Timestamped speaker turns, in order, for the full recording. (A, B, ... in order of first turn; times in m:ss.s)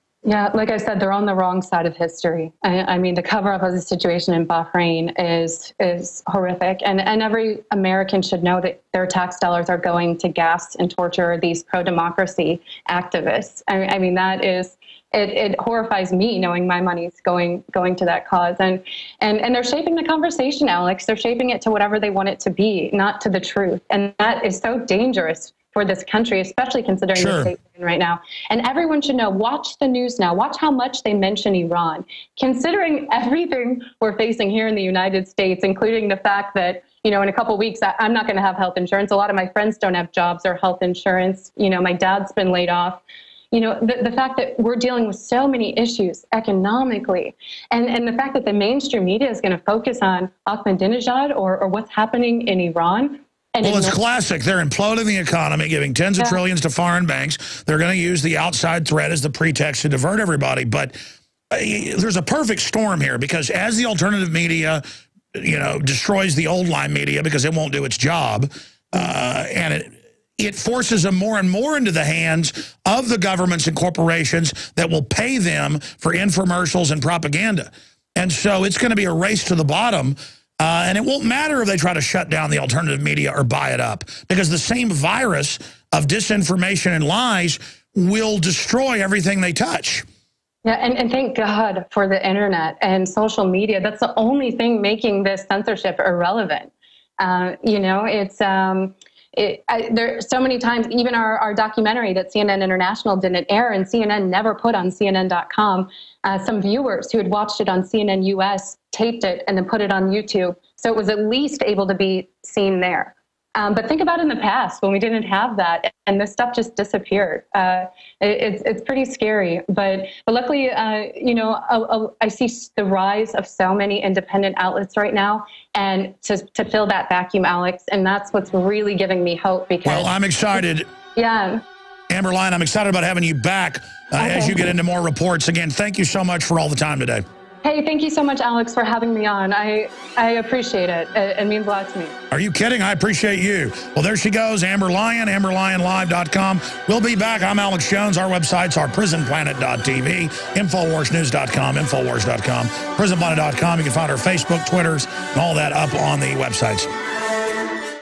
0:00.2-0:43.0 A
0:27.1-0:27.5 B
0:43.5-0:54.0 A
0:53.6-1:01.0 B
1:01.5-1:30.0 B
1:30.6-2:10.1 A
2:09.8-2:10.9 B
2:11.2-2:11.6 A
2:12.1-2:17.2 B
2:14.2-2:14.7 A
2:17.6-2:22.1 A
2:22.3-2:36.9 B